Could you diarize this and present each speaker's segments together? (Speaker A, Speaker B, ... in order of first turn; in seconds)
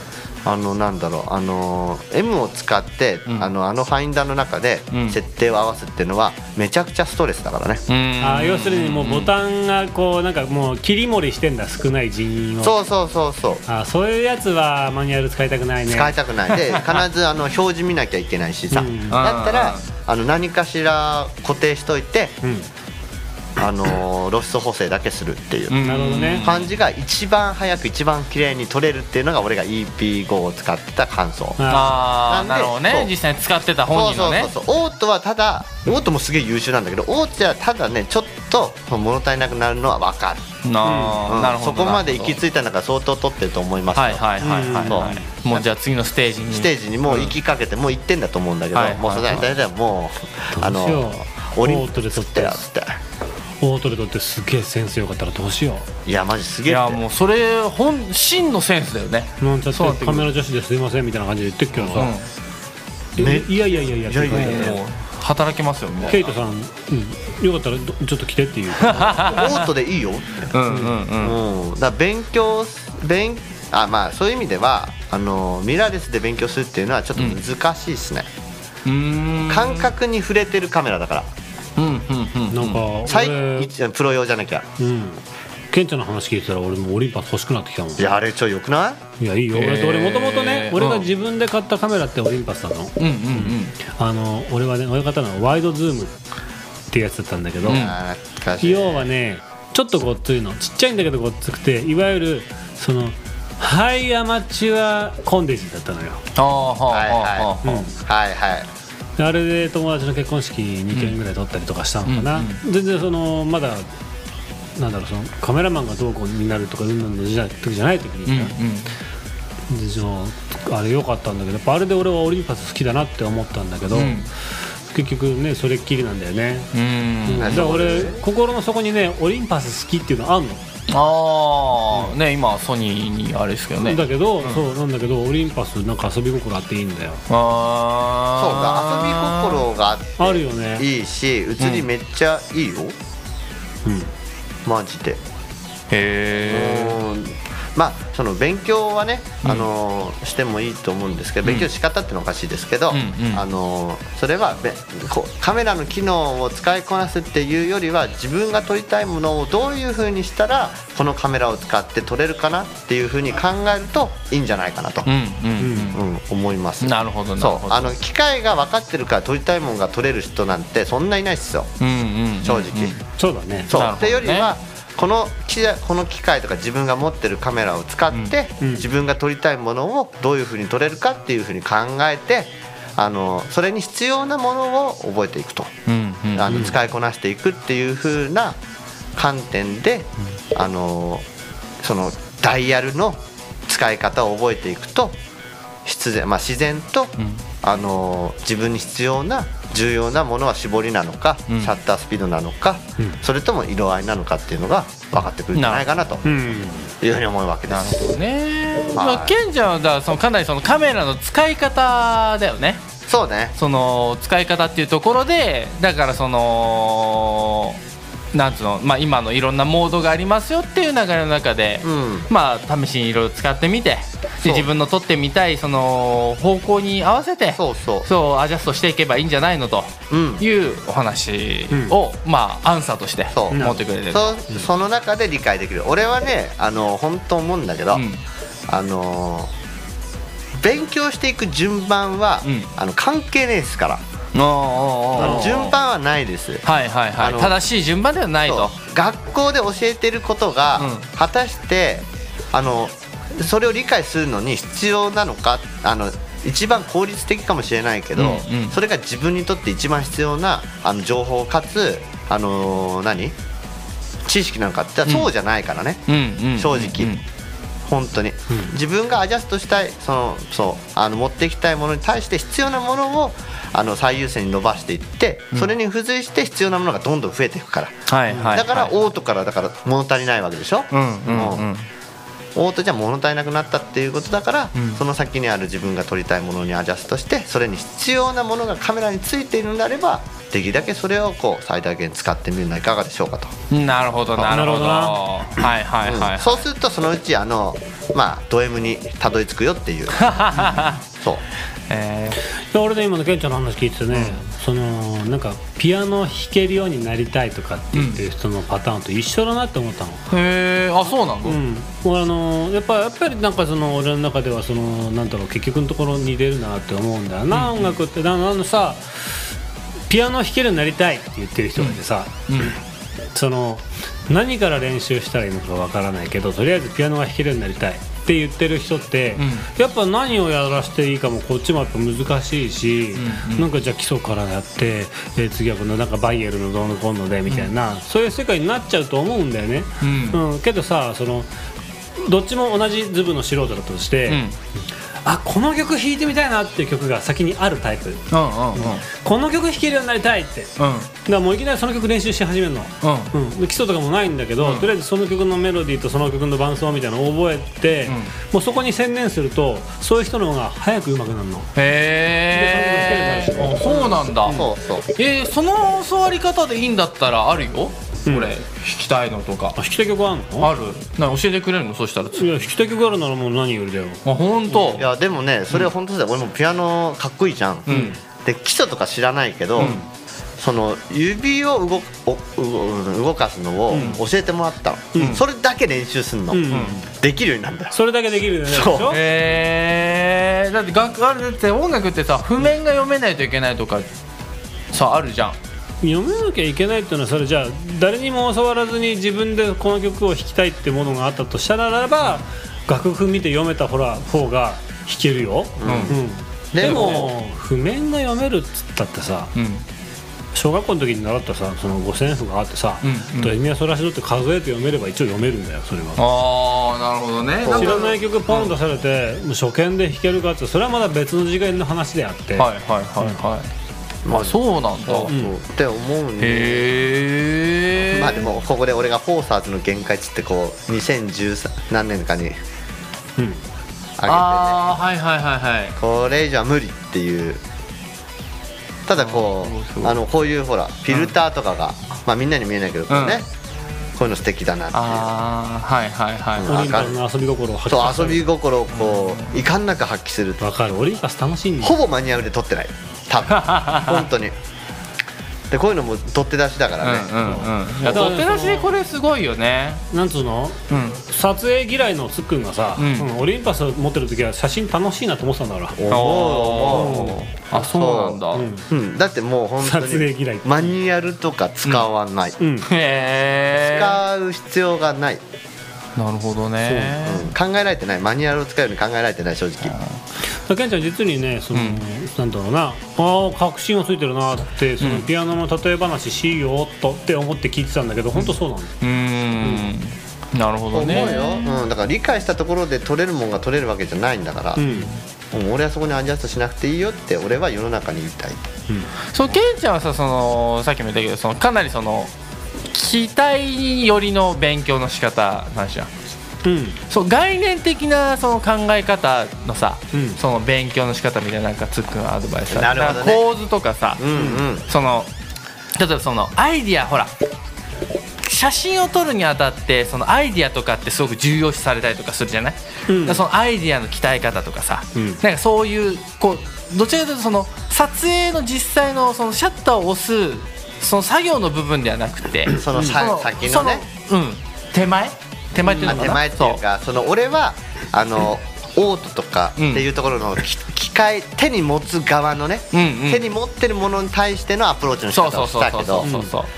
Speaker A: 0.4-7.8, 12.6-13.6, 15.9-22.4, 23.6-25.8, 26.4-31.6, 32.2-33.1, 33.9-40.5, 41.2-45.6, 46.5-53.0, 56.0-57.0, 63.2-64.8, 69.2-70.5, 71.2-78.3, 79.5-81.3, 83.0-84.7, 88.0-89.0, 97.6-99.1, 106.9-108.7, 127.4-128.2, 138.3-142.9, 144.6-145.2, 146.5-165.1, 165.9-171.7, 172.4-172.9, 173.7-185.7, 186.3-188.6, 189.2-191.2, 191.8-195.2, 195.8-206.3, 207.0-208.2, 208.9-209.4, 213.1-213.5, 221.8-222.3, 224.4-224.7, 227.6-228.1, 230.1-230.4, 233.3-238.0, 238.7-239.5, 240.6-244.0, 245.2-246.6, 247.2-247.5, 248.4-263.4, 264.2-266.0, 266.6-267.1, 267.9-278.0, 278.5-281.7, 282.5-293.5, 294.4-294.6, 296.0-300.3, 363.9-365.1, 375.0-377.9, 378.4-380.0, 380.6-387.9, 388.7-389.1, 405.8-406.2, 406.7-407.3, 417.6-418.1, 424.2-426.9, 428.0-432.6, 434.2-434.8, 436.0-437.6, 439.1-443.5, 444.2-445.3, 446.6-447.1, 447.9-450.6, 451.8-454.5, 455.7-457.7, 466.0-472.6, 473.8-475.4, 477.2-479.9, 490.9-494.8, 495.5-498.6, 512.7-513.4, 514.2-514.8, 532.7-534.0, 536.0-546.3
Speaker B: 4.9-5.2, 7.9-9.3, 16.5-16.8, 19.1-19.9, 25.7-26.7, 31.7-34.5, 40.6-42.4, 43.9-47.3, 48.7-49.4, 56.7-60.3, 61.9-62.2, 64.2-66.3, 68.8-69.6, 70.5-71.4, 78.8-79.9, 81.8-82.8, 89.5-91.1, 93.0-93.8, 97.7-98.0, 106.3-107.8, 112.0-112.6, 118.2-118.9, 123.9-124.3, 126.7-127.6, 130.9-134.7, 137.3-139.6, 141.6-141.9, 145.9-147.0, 152.9-153.4, 165.1-166.0, 166.8-167.9, 171.8-173.0, 173.7-174.5, 185.9-186.7, 197.2-197.4, 201.5-201.7, 205.5-205.8, 207.7-212.8, 213.6-217.8, 218.3-234.4, 237.9-238.2, 244.3-245.7, 246.7-248.7, 250.8-251.1, 258.1-258.8, 266.1-267.2, 278.1-278.9, 280.9-281.9, 284.7-285.0, 293.7-296.6, 300.2-301.0, 301.9-302.4, 304.1-304.4, 307.9-308.2, 310.3-311.6, 317.5-318.0, 322.5-322.7, 329.4-329.6, 333.1-333.7, 340.0-340.4, 344.3-344.6, 348.3-349.0, 350.8-351.1, 353.0-353.3, 354.6-354.9, 361.8-364.6, 365.1-369.8, 370.6-372.7, 374.2-375.1, 377.9-378.1, 383.9-384.2, 386.7-386.9, 389.1-394.1, 394.9-395.6, 405.8-406.1, 406.8-407.3, 409.5-409.8, 413.0-413.6, 416.2-418.7, 422.6-423.7, 424.3-425.3, 426.4-428.5, 434.2-435.9, 439.1-440.2, 443.1-443.4, 444.9-446.9, 448.9-449.6, 453.5-454.2, 457.0-460.0, 460.9-461.2, 463.0-463.3, 466.1-468.7, 472.8-474.2, 476.1-477.5, 479.9-480.2, 481.7-482.0, 485.0-485.3, 488.3-491.8, 494.9-495.2, 499.3-502.3, 502.9-506.1, 507.1-514.2, 514.9-515.3, 516.0-517.3, 518.4-536.8, 539.8-540.0, 542.9-543.4, 545.3-546.7
Speaker C: 8.2-12.7, 13.7-16.1, 18.7-19.2, 25.8-26.5, 31.6-31.9, 40.8-41.2, 44.4-45.2, 50.5-52.6, 53.6-55.9, 59.4-62.1, 63.1-64.8, 66.1-69.4, 82.5-83.7, 84.8-88.1, 89.2-96.2, 96.9-97.9, 98.6-106.2, 107.6-107.9, 109.2-113.9, 114.8-118.5, 119.7-124.2, 124.9-126.7, 127.2-130.6, 133.8-137.2, 140.2-140.9, 143.8-144.1, 165.6-165.9, 173.2-173.7, 186.5-186.8, 206.2-206.9, 233.5-233.8, 245.2-245.5, 278.3-278.6, 294.5-295.2, 302.7-310.2, 311.4-319.3, 320.1-322.8, 323.3-341.5, 342.2-344.4, 345.2-348.2, 348.8-350.7, 351.2-361.7, 362.5-364.7, 368.2-368.5, 369.8-370.7, 372.4-375.0, 377.9-378.2, 379.8-380.1, 383.9-384.2, 386.5-387.1, 387.9-389.2, 396.0-409.5, 410.5-416.2, 417.7-422.7, 425.3-425.5, 433.4-433.6, 446.6-448.4, 450.6-451.9, 458.0-458.9, 460.1-466.0, 466.9-467.4, 468.5-468.9, 469.8-470.8, 472.6-472.9, 476.8-477.2, 480.6-488.9, 489.6-489.9, 491.2-491.5, 494.8-495.1, 506.6-507.0, 510.1-510.4, 514.3-514.6, 523.1-523.4, 525.1-525.4, 532.9-533.2, 535.8-536.4, 546.2-546.5